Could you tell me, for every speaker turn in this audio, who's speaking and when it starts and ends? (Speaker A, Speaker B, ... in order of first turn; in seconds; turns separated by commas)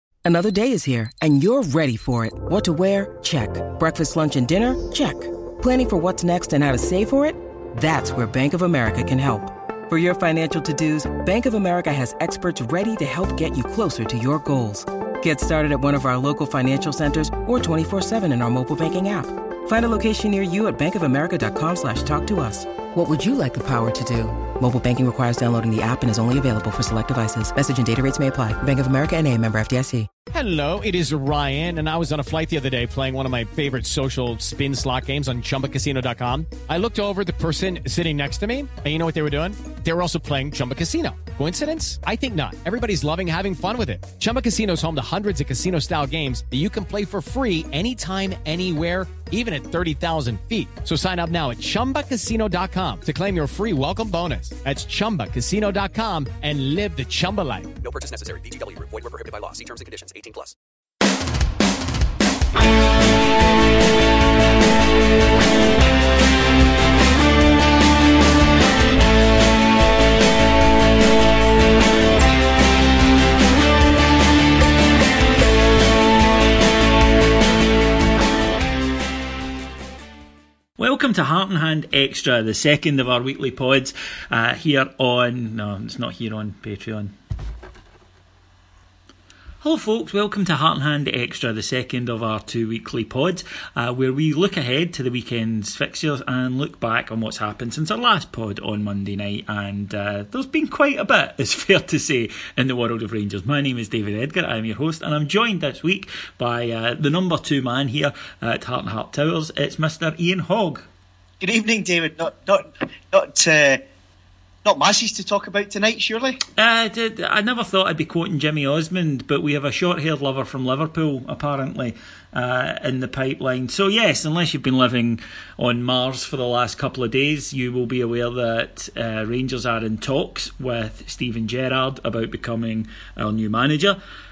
Speaker A: 0.2-30.1, Speaker B: 30.3-57.7, Speaker C: 57.8-60.5, Speaker D: 80.8-87.1, Speaker D: 89.6-110.9, Speaker E: 111.4-113.8, Speaker E: 114.6-116.4, Speaker D: 116.6-134.0